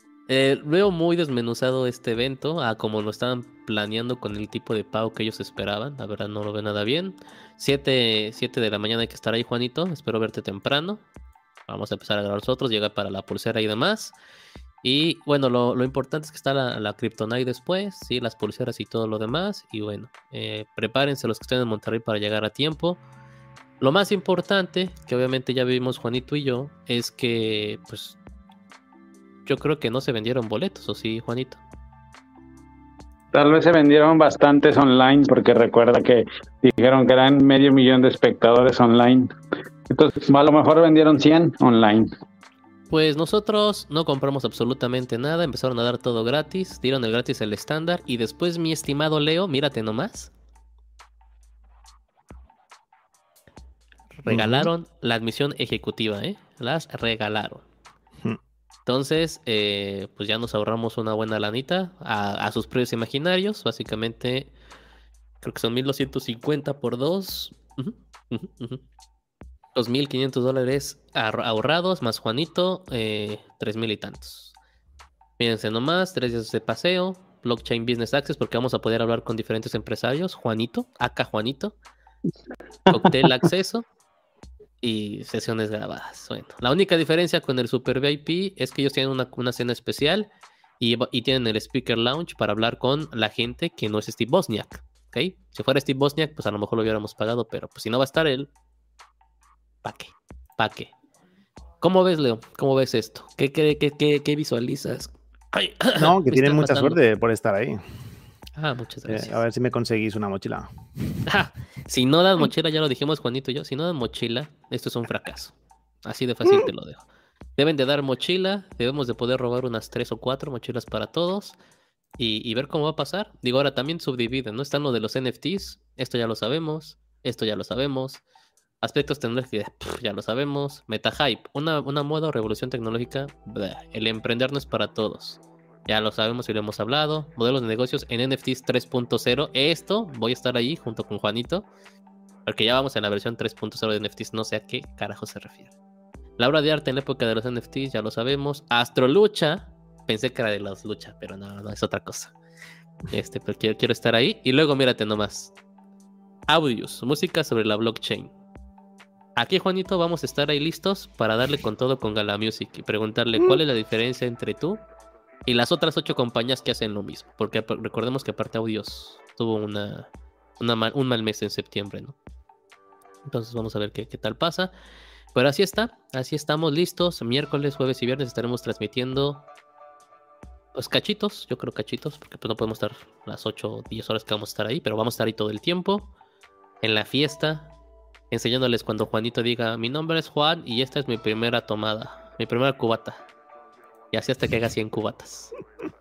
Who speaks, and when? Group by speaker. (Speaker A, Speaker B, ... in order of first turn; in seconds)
Speaker A: 0.3-11.0, 11.7-14.1, 14.8-23.0, 23.8-28.2, 29.5-31.6, 42.9-50.3, 54.2-57.6, 58.9-64.5, 65.4-68.8, 69.8-74.5, 75.4-81.8, 82.9-83.9, 84.8-98.5, 99.8-100.9, 101.8-107.0, 108.6-109.4, 111.3-117.1, 117.6-121.6, 122.2-128.2, 128.8-141.7, 142.5-145.7, 146.4-152.3, 153.1-155.6, 156.5-158.3, 159.4-164.8, 165.5-172.2, 173.3-174.7, 175.3-179.4, 180.8-186.1, 186.8-187.7, 188.3-193.3, 194.1-195.6
Speaker B: 33.3-39.3, 39.9-42.1
Speaker C: 54.3-54.7, 106.0-107.8, 109.1-110.7